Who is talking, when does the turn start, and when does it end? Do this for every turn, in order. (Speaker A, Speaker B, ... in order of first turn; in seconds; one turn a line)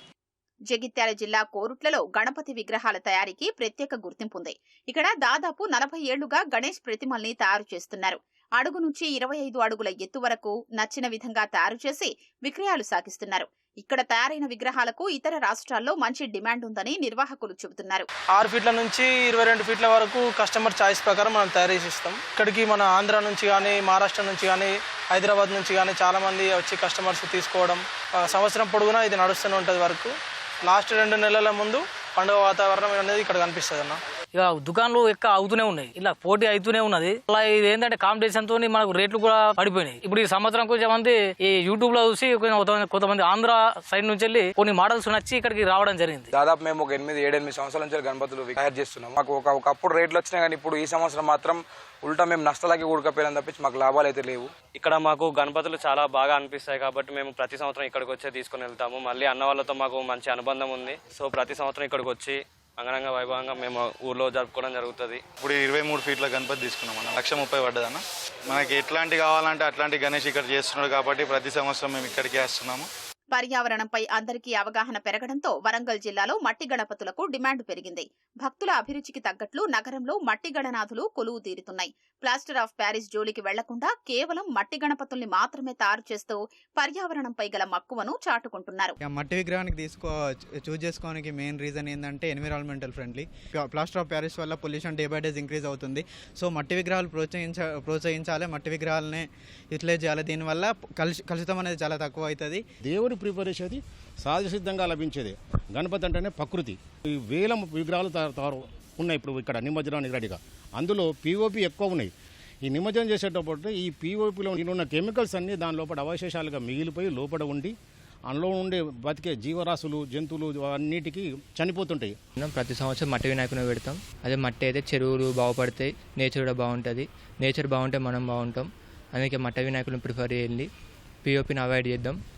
Speaker A: 0.7-18.1
Speaker B: 18.3-30.1
Speaker B: 30.6-34.0
Speaker C: 34.3-46.3
Speaker D: 46.3-54.6
Speaker E: 54.8-65.2
Speaker F: 65.4-72.9
Speaker A: 73.3-88.9
Speaker G: 89.1-99.2
Speaker G: 99.7-102.6
Speaker H: 102.8-112.1
Speaker H: 112.6-117.7
Speaker H: 118.3-122.1
Speaker I: 122.4-130.7
Speaker I: 131.2-132.2